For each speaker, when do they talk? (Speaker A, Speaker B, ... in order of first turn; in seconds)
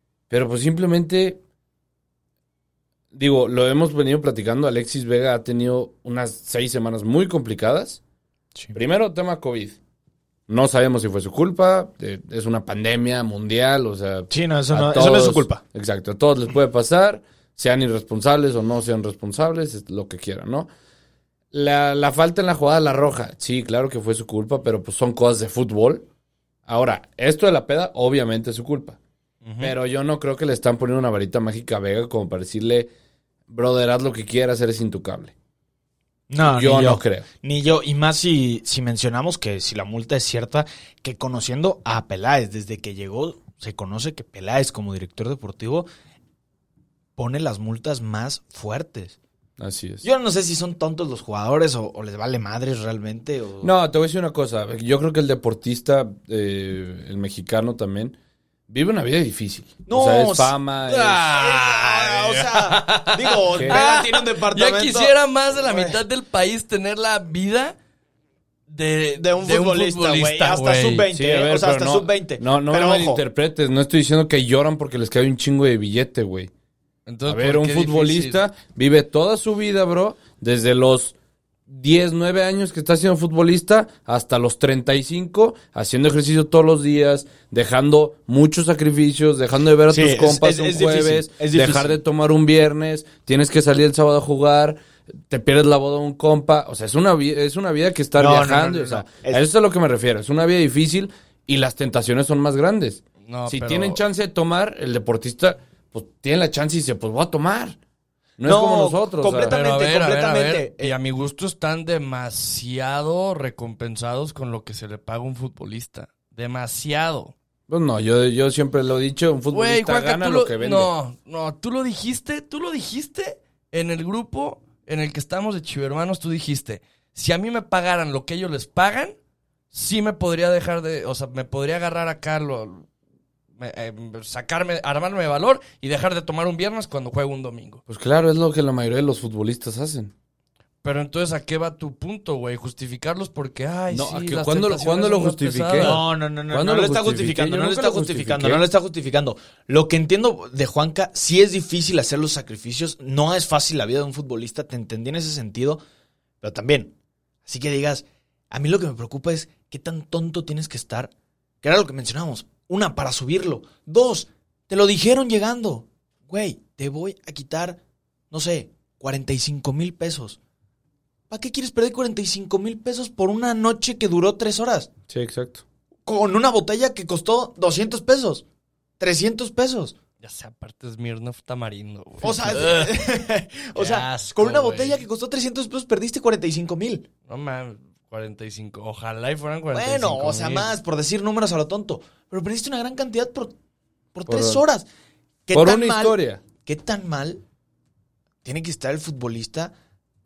Speaker A: 0.3-1.4, 3.1-8.0, 8.7-9.8, 10.5-20.7, 21.5-26.1, 26.7-29.0, 29.6-32.9, 33.5-35.3, 36.4-37.3, 49.6-50.0, 53.6-58.2, 58.7-61.3, 63.5-63.8, 71.1-76.5, 77.3-81.1, 81.7-107.8, 108.4-109.5, 117.7-120.9, 137.9-140.1, 143.9-148.6, 175.1-175.6, 194.2-194.6, 195.5-196.4
Speaker B: 14.3-15.6, 36.3-45.9, 47.2-49.2, 50.0-53.7, 59.9-66.0, 69.2-73.2, 89.9-92.0, 98.2-99.4, 108.4-110.9, 145.8-155.8, 156.4-156.9, 157.4-161.1, 161.6-167.8, 168.3-170.4, 171.3-174.9, 176.1-178.4, 179.0-179.9, 182.2-187.0, 189.7-193.5, 194.1-194.9, 195.5-197.4, 198.4-199.7
Speaker C: 29.4-29.7, 61.2-67.8, 68.7-71.1, 77.1-78.4, 103.2-104.0, 109.4-117.3, 119.5-129.2, 129.7-132.9, 133.6-137.8, 140.8-146.0, 180.2-183.0, 183.7-185.0, 187.3-190.8